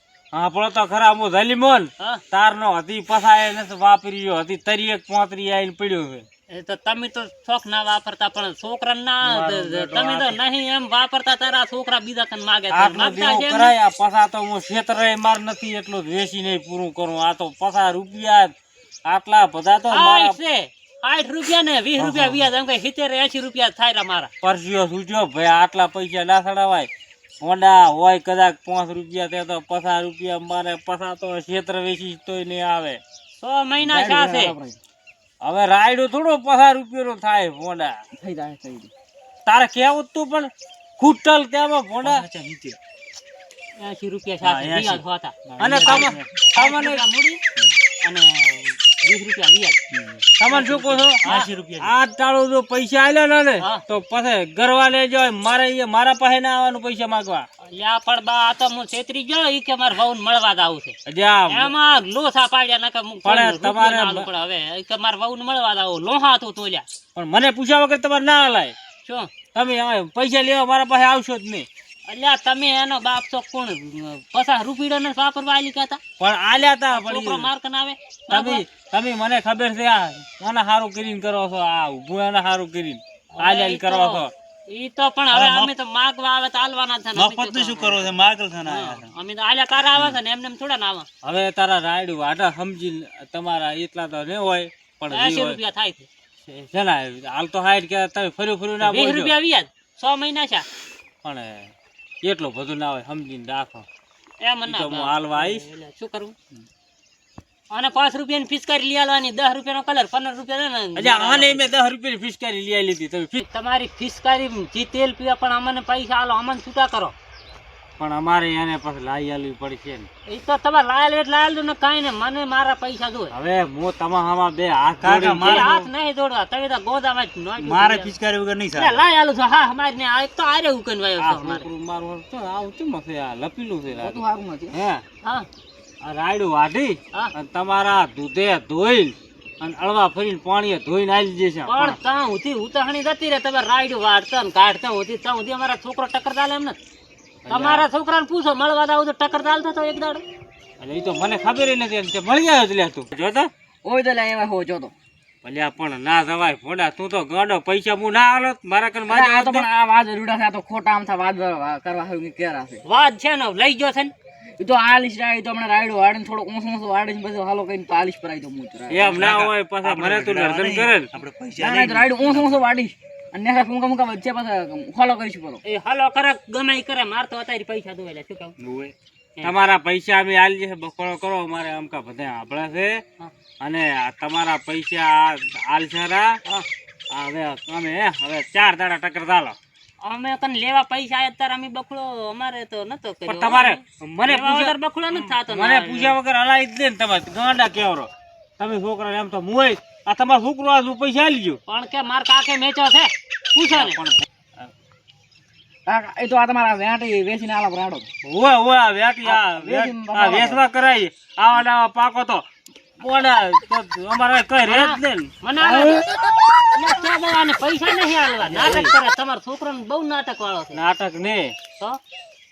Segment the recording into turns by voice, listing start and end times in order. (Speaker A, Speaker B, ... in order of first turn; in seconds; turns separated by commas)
Speaker A: 0.3-6.2, Speaker B: 6.5-13.7, Speaker A: 9.2-10.4, Speaker A: 12.7-18.5, Speaker A: 19.1-20.4, Speaker B: 19.9-24.3, Speaker A: 22.0-22.4, Speaker A: 24.4-26.9, Speaker A: 27.4-33.0, Speaker B: 33.4-34.5, Speaker C: 33.8-34.8, Speaker A: 35.4-38.0, Speaker C: 38.1-38.9, Speaker A: 39.5-42.2, Speaker D: 42.0-42.8, Speaker B: 43.8-47.4, Speaker D: 44.4-46.3, Speaker A: 45.6-47.0, Speaker B: 48.0-49.8, Speaker D: 49.9-50.2, Speaker A: 50.4-51.2, Speaker B: 50.5-51.5, Speaker D: 51.2-51.9, Speaker A: 51.8-57.5, Speaker B: 57.6-61.0, Speaker A: 61.1-61.7, Speaker B: 61.5-66.8, Speaker A: 63.2-64.3, Speaker A: 67.2-68.7, Speaker B: 69.0-69.3, Speaker A: 69.5-71.7, Speaker B: 72.1-76.0, Speaker A: 76.2-77.5, Speaker B: 76.9-78.6, Speaker A: 78.3-84.3, Speaker B: 83.3-91.0, Speaker A: 85.3-85.7, Speaker D: 87.1-89.1, Speaker A: 91.2-95.6, Speaker B: 95.1-96.1, Speaker A: 96.4-99.3, Speaker B: 98.8-100.6, Speaker A: 101.2-101.7, Speaker A: 102.2-103.8, Speaker B: 104.4-106.3, Speaker A: 104.7-105.6, Speaker B: 107.7-111.7, Speaker A: 111.0-113.4, Speaker B: 113.4-117.1, Speaker A: 118.0-120.1, Speaker B: 120.3-123.3, Speaker A: 123.3-125.8, Speaker D: 125.0-125.7, Speaker B: 125.4-128.1, Speaker D: 127.6-129.0, Speaker B: 128.7-131.7, Speaker A: 131.2-135.0, Speaker C: 133.9-134.7, Speaker A: 136.0-142.0, Speaker B: 141.7-146.8, Speaker A: 147.4-147.8, Speaker B: 147.5-150.2, Speaker A: 150.8-153.5, Speaker C: 153.8-154.9, Speaker A: 155.4-159.7, Speaker C: 159.1-162.8, Speaker B: 162.8-164.1, Speaker C: 164.6-169.2, Speaker A: 168.9-171.1, Speaker D: 169.1-172.6, Speaker C: 171.6-175.6, Speaker B: 175.6-178.5, Speaker D: 178.6-178.9, Speaker A: 179.4-183.0, Speaker A: 183.6-186.4, Speaker A: 187.1-189.6, Speaker B: 190.0-196.2, Speaker A: 193.3-198.1, Speaker A: 198.6-201.6, Speaker B: 201.7-204.0, Speaker A: 203.7-204.7, Speaker C: 205.8-208.1, Speaker A: 208.2-212.4, Speaker C: 209.2-210.6, Speaker A: 213.0-216.0, Speaker B: 214.7-216.0, Speaker C: 215.8-216.2, Speaker B: 216.7-220.8, Speaker A: 218.4-218.9, Speaker A: 220.7-221.5